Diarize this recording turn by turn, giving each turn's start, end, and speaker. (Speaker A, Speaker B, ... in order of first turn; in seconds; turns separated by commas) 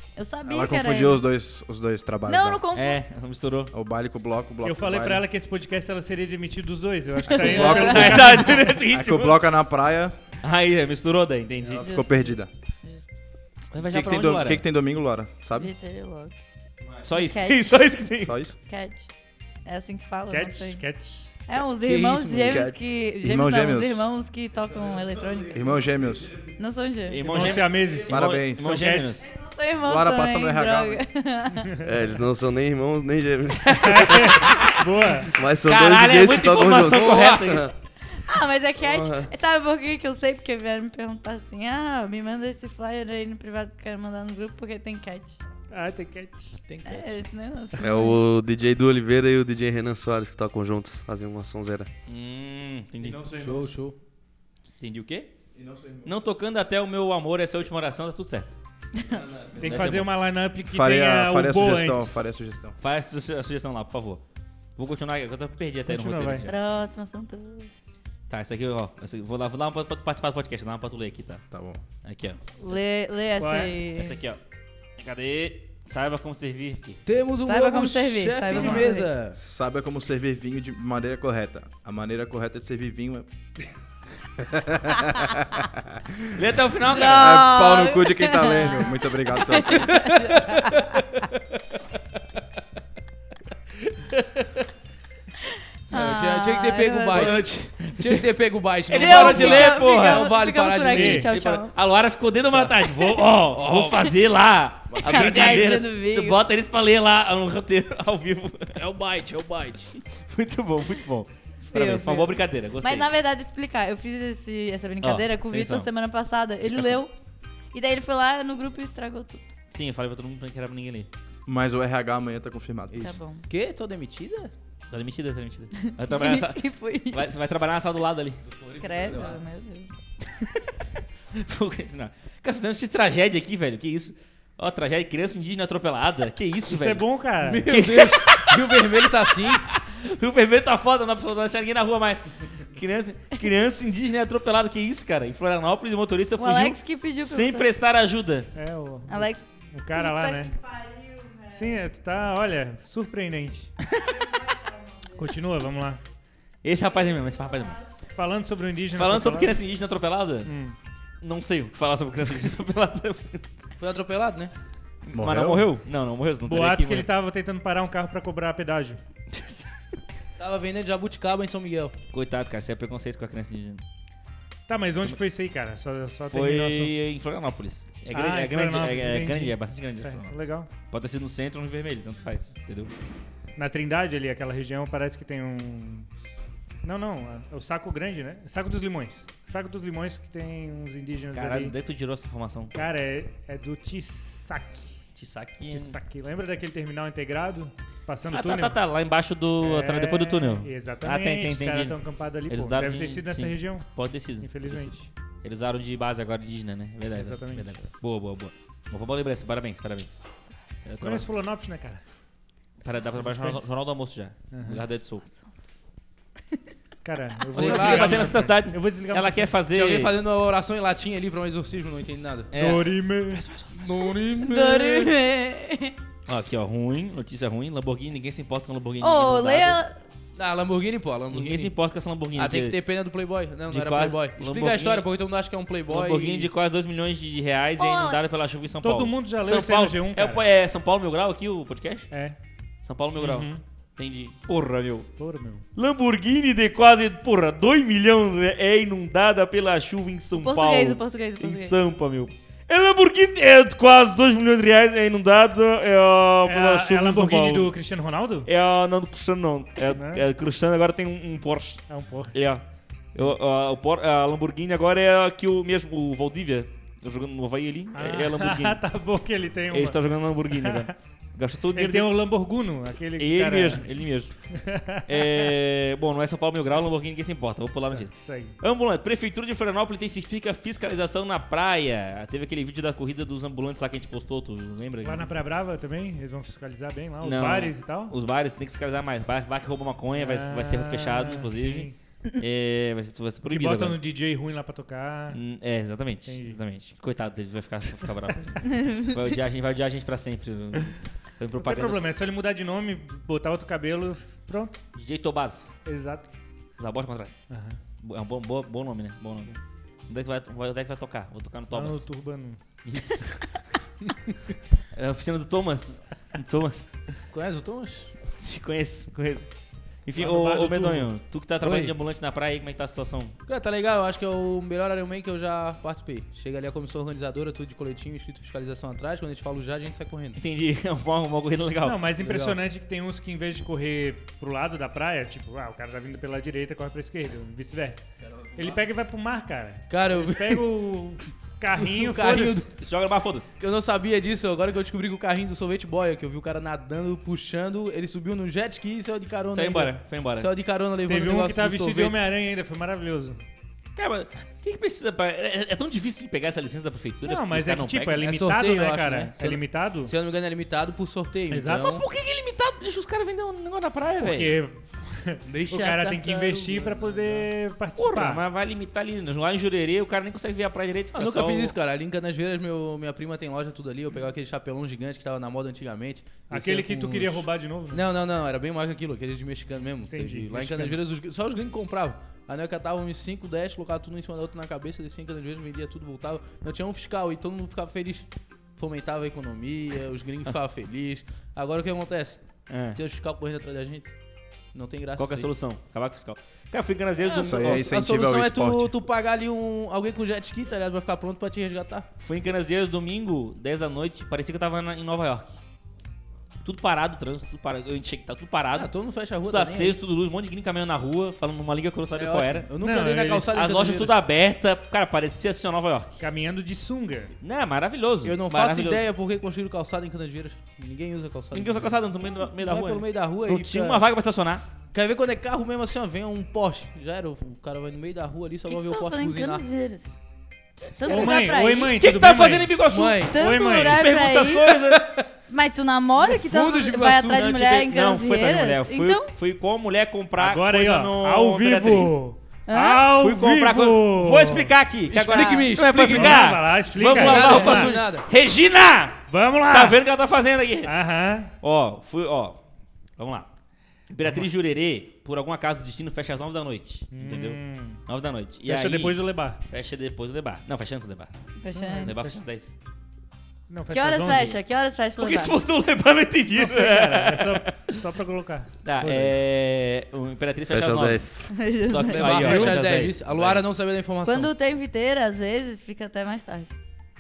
Speaker A: 0.2-1.2, Speaker B: 0.5-2.6, Speaker A: 2.3-3.0, Speaker C: 2.7-3.7, Speaker B: 3.7-5.2, Speaker D: 4.6-8.6, Speaker A: 7.3-8.7, Speaker C: 7.4-9.4, Speaker B: 7.5-10.2, Speaker C: 10.4-11.8, Speaker B: 11.7-12.5, Speaker A: 11.7-13.1, Speaker C: 13.7-14.6, Speaker B: 13.8-15.7, Speaker A: 15.6-16.4, Speaker C: 17.0-18.4, Speaker A: 17.1-18.0, Speaker B: 18.2-18.6, Speaker A: 18.6-19.1, Speaker A: 19.6-20.9, Speaker D: 20.3-21.3, Speaker A: 21.5-25.8, Speaker E: 21.8-22.7, Speaker B: 22.5-24.1, Speaker B: 25.5-26.5, Speaker A: 26.4-27.6, Speaker C: 27.1-29.3, Speaker D: 27.2-29.2, Speaker B: 28.1-28.7, Speaker A: 29.2-31.9, Speaker B: 29.8-31.0, Speaker F: 31.8-34.2, Speaker C: 33.6-34.9, Speaker D: 33.8-35.3, Speaker F: 35.3-37.7, Speaker C: 35.6-37.7, Speaker E: 36.8-37.4, Speaker A: 38.1-45.4, Speaker F: 38.8-39.3, Speaker D: 45.7-46.5, Speaker E: 46.7-47.2, Speaker A: 46.9-48.2, Speaker F: 47.8-51.9, Speaker C: 52.1-53.3, Speaker B: 53.0-53.7, Speaker E: 53.3-54.0, Speaker C: 54.8-55.3, Speaker B: 55.5-56.1, Speaker C: 56.0-58.6, Speaker B: 59.1-59.9, Speaker C: 59.6-60.1, Speaker D: 59.6-62.2, Speaker B: 60.7-62.8, Speaker C: 62.8-64.2, Speaker C: 64.8-66.5, Speaker D: 65.9-66.5, Speaker A: 66.4-67.7, Speaker C: 68.3-71.4, Speaker B: 71.5-71.8, Speaker C: 72.0-72.4, Speaker A: 72.6-74.2, Speaker D: 73.4-73.8, Speaker C: 74.0-74.4, Speaker C: 75.0-77.0, Speaker E: 77.0-79.4, Speaker A: 77.4-79.1, Speaker D: 78.5-78.9, Speaker B: 79.3-83.3, Speaker B: 84.4-86.4, Speaker C: 86.3-87.5, Speaker A: 86.8-91.0, Speaker B: 87.0-90.2, Speaker A: 95.5-97.4, Speaker E: 95.9-101.6, Speaker C: 97.1-98.3, Speaker C: 98.9-100.4, Speaker A: 98.9-101.8, Speaker D: 100.9-101.3, Speaker C: 101.3-108.8, Speaker E: 102.5-102.9, Speaker E: 103.5-104.1, Speaker E: 104.9-105.8, Speaker A: 105.0-106.4, Speaker E: 108.8-109.9, Speaker C: 110.2-113.1, Speaker A: 111.7-117.1, Speaker C: 115.0-115.9, Speaker A: 117.7-119.5, Speaker C: 119.7-121.1, Speaker B: 121.5-123.1, Speaker E: 122.9-124.5, Speaker A: 123.0-123.5, Speaker C: 124.9-128.4, Speaker A: 125.8-127.3, Speaker A: 128.8-130.0, Speaker E: 128.9-129.4, Speaker C: 130.3-130.7, Speaker C: 131.3-137.1, Speaker D: 136.7-137.7, Speaker E: 137.4-139.6, Speaker C: 137.6-148.5, Speaker A: 146.4-147.7, Speaker D: 148.5-150.5, Speaker A: 149.1-151.8, Speaker D: 151.5-153.7, Speaker A: 154.0-155.2, Speaker D: 155.2-156.0, Speaker C: 156.6-157.8, Speaker A: 157.2-157.8, Speaker D: 158.1-159.6, Speaker C: 158.9-160.5, Speaker D: 160.4-160.8, Speaker C: 161.2-163.5, Speaker E: 163.8-164.5, Speaker C: 165.1-167.1, Speaker B: 165.1-165.7, Speaker D: 166.4-169.0, Speaker C: 169.3-169.7, Speaker E: 170.4-171.9, Speaker C: 172.1-173.8, Speaker D: 174.7-177.0, Speaker C: 176.3-180.3, Speaker D: 178.1-180.7, Speaker C: 180.9-182.9, Speaker D: 183.6-186.1, Speaker D: 186.8-191.8, Speaker C: 191.3-192.8, Speaker D: 192.7-195.0, Speaker C: 195.2-195.9, Speaker D: 195.7-198.8, Speaker C: 198.3-202.0, Speaker D: 199.6-203.9, Speaker C: 202.5-210.3, Speaker D: 204.4-205.1, Speaker D: 207.1-207.8, Speaker C: 210.8-211.3, Speaker D: 211.0-212.0, Speaker C: 212.8-215.3, Speaker D: 213.2-213.7, Speaker D: 214.5-214.8, Speaker D: 217.0-219.5, Speaker E: 217.5-218.4, Speaker C: 217.6-220.2, Speaker E: 219.7-222.5, Speaker C: 222.5-224.1, Speaker D: 222.6-223.4, Speaker E: 223.7-225.2, Speaker A: 224.4-225.9, Speaker C: 226.3-229.8, Speaker A: 229.0-230.0, Speaker E: 230.4-231.7, Speaker C: 231.3-232.8, Speaker E: 232.3-236.5, Speaker C: 233.7-235.1, Speaker C: 235.9-242.1, Speaker A: 237.8-238.2, Speaker D: 238.8-240.4, Speaker D: 242.1-242.4, Speaker C: 242.8-245.1, Speaker D: 243.2-243.6, Speaker D: 245.2-245.6, Speaker C: 245.8-257.7, Speaker A: 250.4-251.8, Speaker D: 256.4-258.5, Speaker C: 258.5-262.6, Speaker D: 259.9-260.2, Speaker D: 261.9-262.4, Speaker C: 263.1-268.8, Speaker D: 267.9-270.9, Speaker C: 269.7-272.1, Speaker D: 271.8-273.9, Speaker C: 273.2-285.3, Speaker D: 274.5-275.5, Speaker D: 277.9-278.6, Speaker D: 285.0-288.1, Speaker C: 287.2-294.0, Speaker D: 290.2-291.9, Speaker D: 293.5-295.4, Speaker C: 295.3-302.0, Speaker D: 296.3-296.6, Speaker A: 298.7-299.1, Speaker D: 301.6-304.8, Speaker C: 304.9-305.8, Speaker D: 305.9-306.3, Speaker C: 306.8-307.4, Speaker D: 307.5-307.8, Speaker C: 308.0-309.5, Speaker C: 310.1-312.1, Speaker D: 311.7-312.6, Speaker C: 312.8-313.6, Speaker C: 314.9-316.9, Speaker E: 317.3-318.1, Speaker C: 318.4-319.5, Speaker C: 320.1-323.4, Speaker D: 320.1-321.1, Speaker E: 321.6-321.9, Speaker E: 323.5-330.4, Speaker C: 330.4-332.0, Speaker D: 331.8-342.7, Speaker E: 332.2-332.6, Speaker E: 339.9-340.6, Speaker E: 341.7-342.8, Speaker C: 342.8-343.5, Speaker E: 343.6-352.2, Speaker C: 349.5-350.5, Speaker D: 351.1-353.4, Speaker C: 354.0-358.2, Speaker D: 357.3-360.1, Speaker E: 358.2-362.0, Speaker D: 361.5-361.9, Speaker C: 361.8-364.6, Speaker D: 364.2-368.4, Speaker E: 365.5-367.5, Speaker C: 368.0-371.8, Speaker E: 371.1-392.4, Speaker D: 376.5-378.0, Speaker D: 380.1-381.0, Speaker C: 392.7-393.0, Speaker E: 392.9-394.1, Speaker E: 394.7-395.5, Speaker C: 395.2-397.9, Speaker E: 397.2-402.1, Speaker B: 397.4-398.9, Speaker C: 402.2-405.6, Speaker C: 406.6-408.9, Speaker E: 408.7-410.0, Speaker C: 409.5-412.7, Speaker E: 412.1-414.2, Speaker D: 412.8-413.5, Speaker C: 413.5-416.2, Speaker D: 416.2-417.3, Speaker C: 417.4-419.0, Speaker E: 418.2-421.9, Speaker C: 421.5-424.6, Speaker E: 422.6-424.0, Speaker E: 424.9-429.6, Speaker A: 428.7-430.2, Speaker C: 430.8-431.4, Speaker A: 431.0-432.0, Speaker D: 431.1-432.7, Speaker C: 432.0-435.0, Speaker E: 432.9-433.6, Speaker A: 433.3-434.7, Speaker D: 433.4-434.1, Speaker E: 434.8-435.2, Speaker A: 435.5-439.3, Speaker E: 436.2-437.6, Speaker C: 437.4-442.2, Speaker D: 440.4-444.7, Speaker A: 442.7-443.1, Speaker C: 443.1-450.9, Speaker E: 445.1-448.2, Speaker A: 445.3-445.7, Speaker D: 445.9-447.9, Speaker D: 449.3-450.0, Speaker D: 450.8-451.5, Speaker C: 451.6-452.6, Speaker C: 453.2-453.5, Speaker C: 454.1-461.3, Speaker D: 454.2-454.5, Speaker D: 457.1-458.0, Speaker D: 458.6-459.6, Speaker A: 461.6-462.2, Speaker D: 461.7-462.4, Speaker C: 462.0-462.7, Speaker D: 463.7-464.6, Speaker A: 463.9-465.6, Speaker C: 465.2-468.0, Speaker D: 466.5-469.3, Speaker C: 468.8-471.3, Speaker F: 469.0-469.3, Speaker F: 470.7-471.5, Speaker A: 471.5-472.7, Speaker C: 471.8-473.6, Speaker E: 472.1-474.5, Speaker D: 472.5-472.7, Speaker A: 474.2-476.7